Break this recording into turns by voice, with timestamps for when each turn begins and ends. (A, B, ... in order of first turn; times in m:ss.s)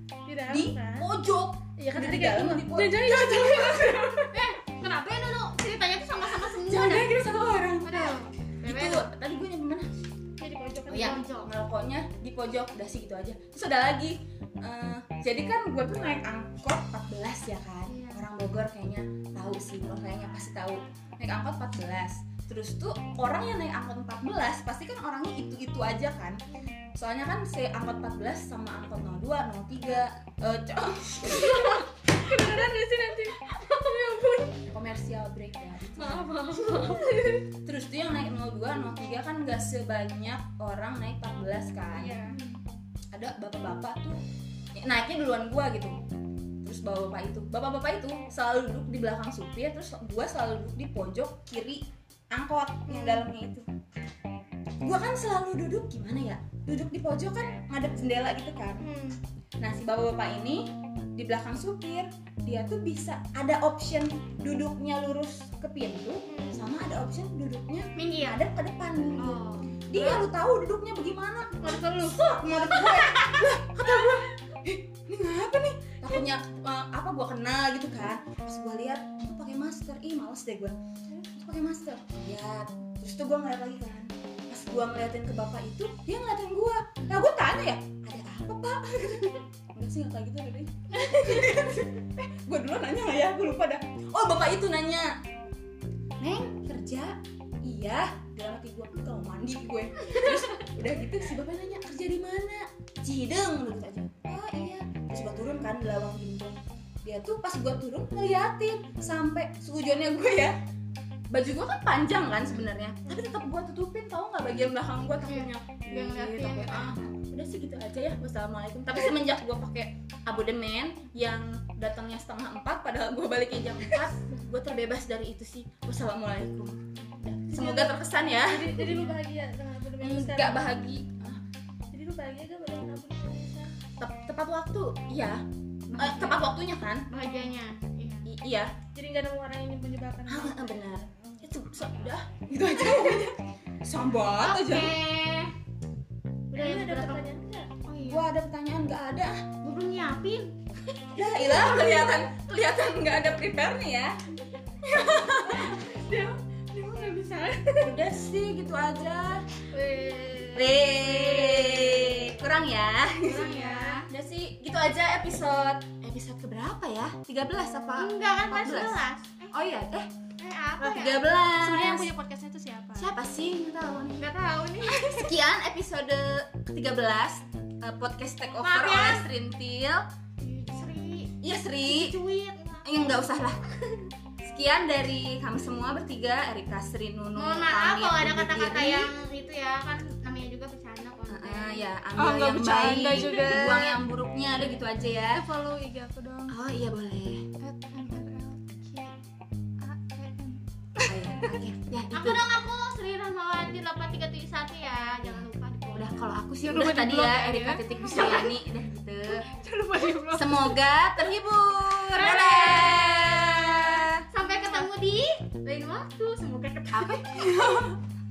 0:00.2-0:01.1 A
0:00.5-0:04.3 B
0:01.8-0:04.4 A
0:04.3-0:07.2 C
0:06.4-0:10.0 B
0:07.8-0:09.1 C
0:10.4-0:11.2 A
0:10.9-0:11.5 C
0:10.9-0:26.4 B
0:17.9-0:18.2 C
0:26.9-0:31.9 B
0:31.3-0:34.6 A
0:34.7-0:42.2 B
0:36.0-0:37.0 C
0:36.1-0:37.5 A
0:41.9-0:42.4 C
0:42.3-0:42.6 A
0:43.1-0:44.2 B
0:44.8-0:46.0 B
0:46.6-0:53.7 B
0:54.8-0:58.9 B
0:58.8-0:59.2 A
0:59.6-1:20.7 B
1:06.3-1:06.7 A
1:08.0-1:08.4 C
1:09.1-1:10.2 C
1:11.6-1:14.2 C
1:21.3-1:35.1 B
1:36.2-1:50.6 B
1:51.3-2:09.1 B
1:55.2-1:57.0 C
2:07.5-2:10.8 A
2:10.0-2:11.4 B
2:11.9-2:13.7 A
2:14.0-2:17.1 B
2:15.9-2:16.5 C
2:17.1-2:18.3 C
2:18.2-2:18.7 B
2:18.9-2:20.8 A
2:20.2-2:25.0 B
2:24.4-2:25.5 C
2:26.5-2:27.2 C
2:26.6-2:27.7 A
2:27.8-2:28.3 C
2:28.0-2:29.5 B
2:29.6-2:30.5 C
2:31.1-2:34.2 B
2:34.8-2:35.8 B
2:35.2-2:38.0 A
2:37.8-2:39.4 B
2:39.7-2:42.4 A
2:40.5-2:43.5 B
2:43.2-2:44.1 C
2:43.3-2:44.0 A
2:44.1-2:50.1 B
2:48.0-2:49.8 C
2:50.4-2:51.2 C
2:50.8-2:52.1 B
2:51.4-2:53.1 A
2:53.0-2:54.2 B
2:54.2-2:55.3 C
2:54.9-3:00.0 B
2:58.6-2:59.3 C
3:00.4-3:03.2 C
3:01.4-3:02.2 B
3:02.8-3:03.6 B
3:04.4-3:09.1 B
3:07.4-3:12.0 C
3:11.3-3:15.4 B
3:12.2-3:14.0 A
3:15.3-3:16.6 A
3:16.5-3:17.5 B
3:17.6-3:19.1 A
3:19.8-3:21.5 A
3:21.1-3:22.5 B
3:22.1-3:26.2 C
3:25.9-3:29.5 B
3:26.6-3:28.5 A
3:28.0-3:28.4 C
3:29.3-3:31.2 A
3:30.3-3:34.2 B
3:32.1-3:37.5 C
3:32.2-3:32.9 A
3:34.6-3:34.9 A
3:36.9-3:38.0 B